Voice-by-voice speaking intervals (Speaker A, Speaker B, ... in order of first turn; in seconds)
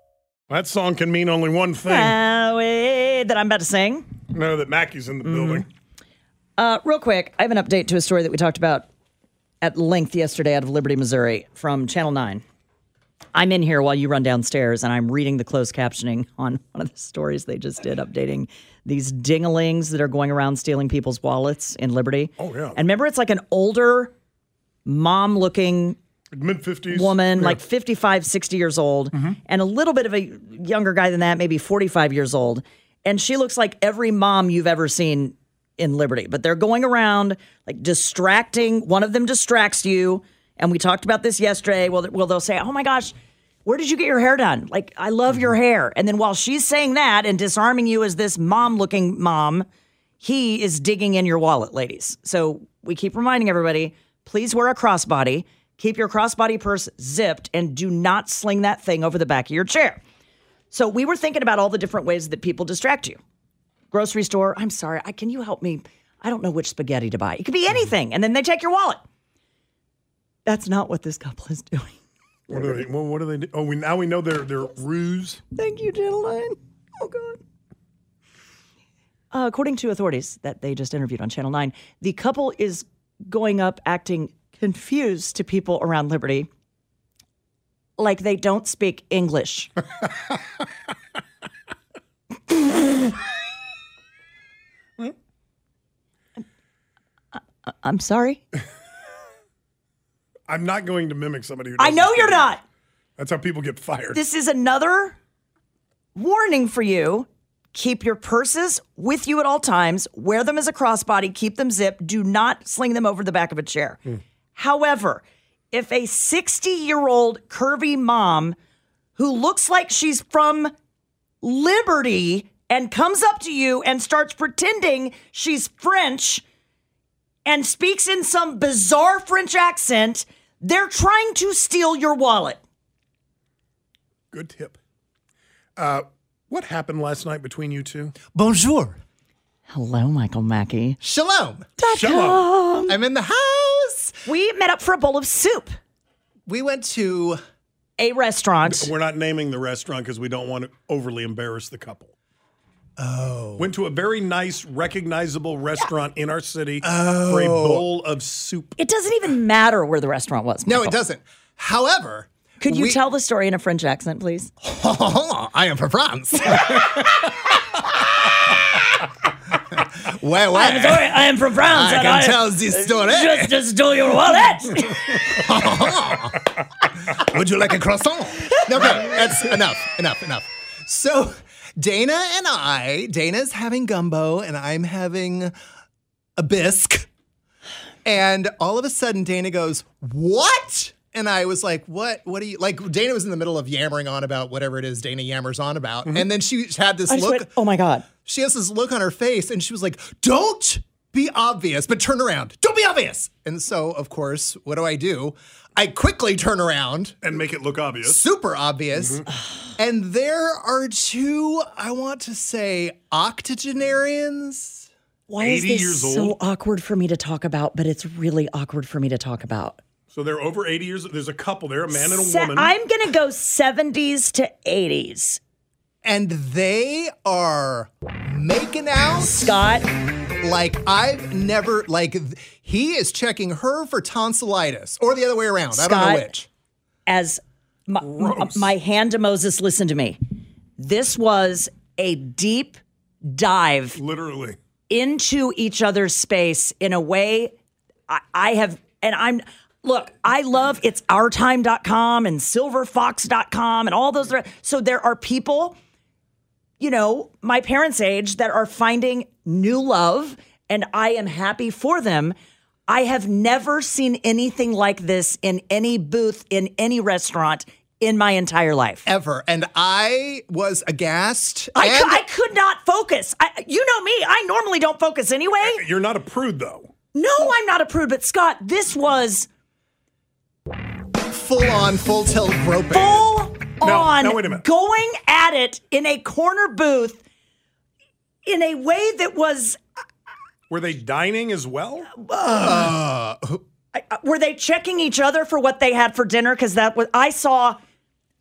Speaker A: 0.5-2.2, 4.3-5.7, 22.4-22.8, 26.3-27.6, 72.5-75.4, 100.5-102.6, 103.2-104.2, 134.3-134.8, 135.8-138.2, 141.9-142.4, 148.7-152.1, 153.6-158.8, 207.2-208.3, 215.4-216.4, 220.1-222.7, 238.0-238.7, 243.9-244.6, 275.6-276.9, 283.8-284.6, 290.7-292.1
Speaker B: 1.8-4.1, 5.2-5.7, 6.6-8.9, 9.6-12.4, 13.3-24.1, 24.9-26.0, 26.9-43.1, 43.6-49.7, 50.2-60.0, 60.7-63.2, 63.9-69.0, 70.5-72.0, 75.5-77.4, 79.3-86.5, 88.0-89.8, 97.8-98.4, 101.8-102.6, 104.1-105.2, 106.2-114.0, 114.5-118.6, 119.2-120.7, 121.4-126.4, 127.5-132.6, 139.7-141.0, 141.8-143.0, 144.3-145.8, 148.0-148.9, 158.8-160.9, 162.6-164.5, 170.5-175.5, 197.1-198.1, 215.3-219.8, 221.9-225.4, 229.2-229.9, 235.7-236.3, 237.1-240.2, 240.8-244.0, 244.9-247.5, 248.1-255.8, 256.8-262.4, 262.9-269.1, 271.8-275.8, 277.1-279.5, 282.9-287.2, 288.5-289.8, 292.2-292.9, 293.9-297.8
Speaker C: 138.3-139.0, 141.0-141.7, 142.9-144.2, 146.5-147.4, 153.0-153.7, 156.8-157.8, 160.7-163.0, 164.6-166.7, 169.8-173.7, 175.3-176.5, 177.1-185.6, 186.4-187.1, 188.1-197.5, 198.2-207.2, 208.0-209.2, 209.8-214.9, 226.1-229.5, 230.4-236.5, 269.1-272.2, 281.2-283.3, 292.6-293.6